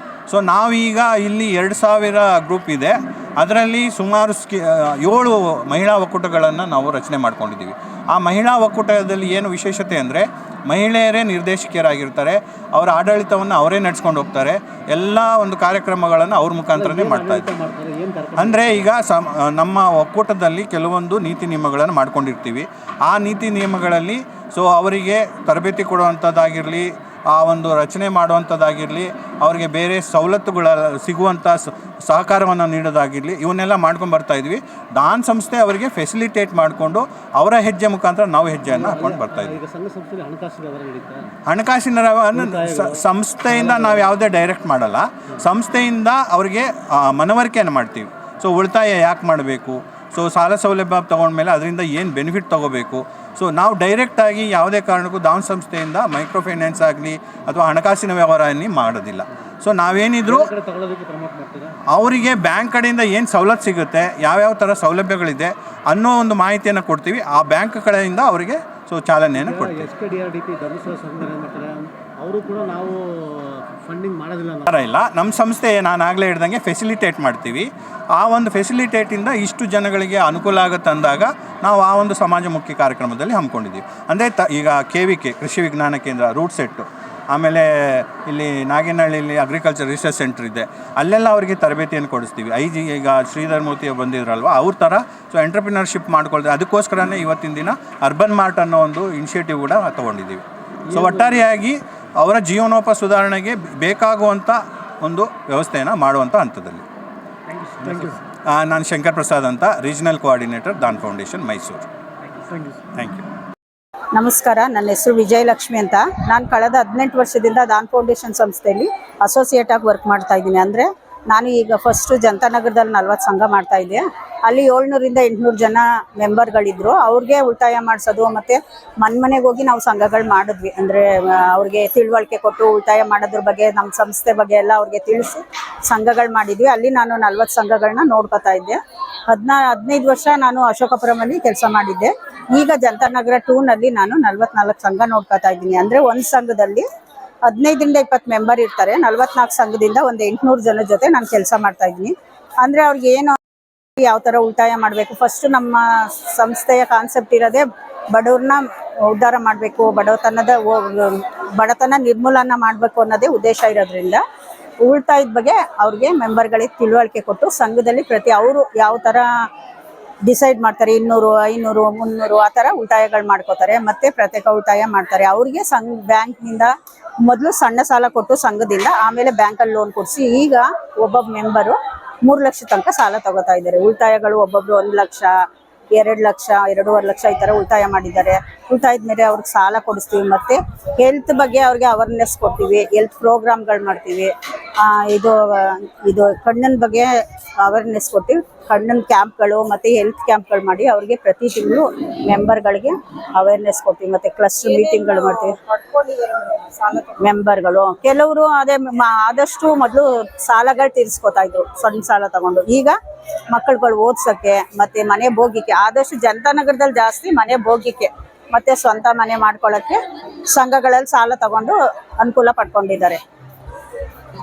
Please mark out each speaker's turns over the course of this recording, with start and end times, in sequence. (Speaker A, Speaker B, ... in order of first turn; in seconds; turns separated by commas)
Speaker A: 0.3-17.5, Speaker B: 16.7-18.9, Speaker A: 18.4-39.6, Speaker B: 38.7-41.3, Speaker A: 41.5-60.5, Speaker B: 42.3-44.0, Speaker B: 60.2-61.8, Speaker A: 61.9-69.9, Speaker B: 69.3-74.7, Speaker A: 74.7-106.8, Speaker B: 100.9-101.3, Speaker B: 107.8-108.2, Speaker A: 108.5-111.8, Speaker A: 112.9-113.2, Speaker C: 114.1-146.8, Speaker C: 147.4-153.4, Speaker C: 153.9-164.2, Speaker C: 164.8-169.3, Speaker C: 170.2-176.7, Speaker C: 177.2-185.3, Speaker C: 185.9-212.9, Speaker C: 213.5-220.0, Speaker C: 220.5-223.2